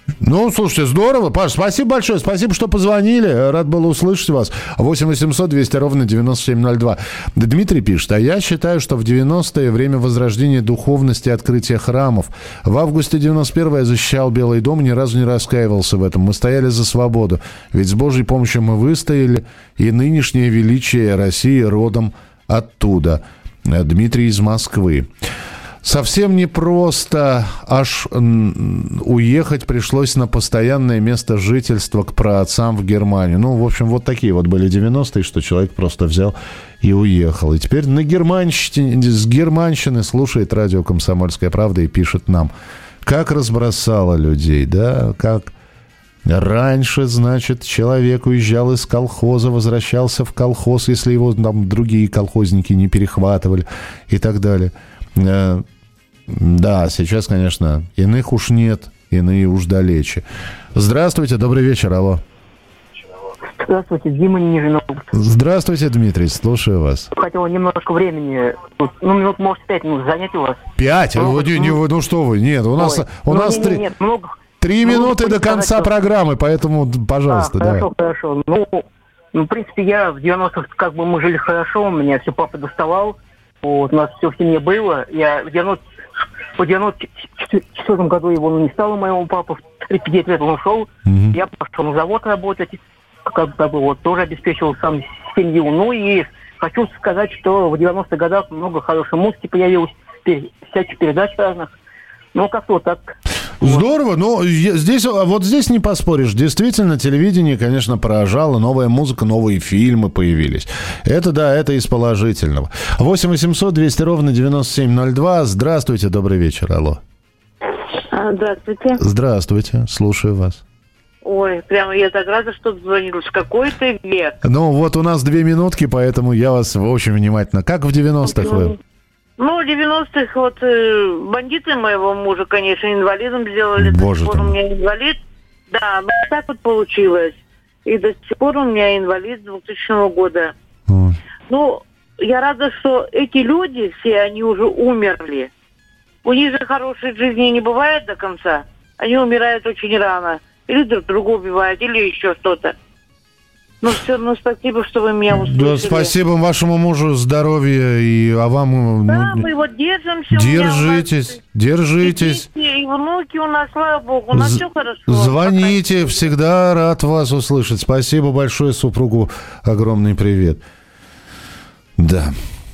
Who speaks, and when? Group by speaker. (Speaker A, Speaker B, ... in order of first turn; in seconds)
Speaker A: 0.2-25.1, 25.8-42.5, 43.0-45.5, 46.2-55.6, 56.3-62.2, 65.1-67.1, 70.8-73.8, 74.6-77.9, 91.1-91.4, 103.6-117.0, 119.0-120.6, 124.4-128.7, 133.8-134.6, 140.9-141.2, 155.3-159.4, 160.3-162.5, 164.3-170.6, 172.0-172.3
Speaker B: 63.6-65.1, 67.1-70.6, 71.2-71.8, 72.8-75.9, 77.3-85.8, 86.6-101.8, 102.3-103.8
Speaker C: 118.1-119.0, 121.2-124.4, 128.2-128.7, 129.4-135.2, 135.7-140.5, 141.5-145.5, 146.2-152.8, 153.8-156.1, 159.1-161.3, 162.0-166.3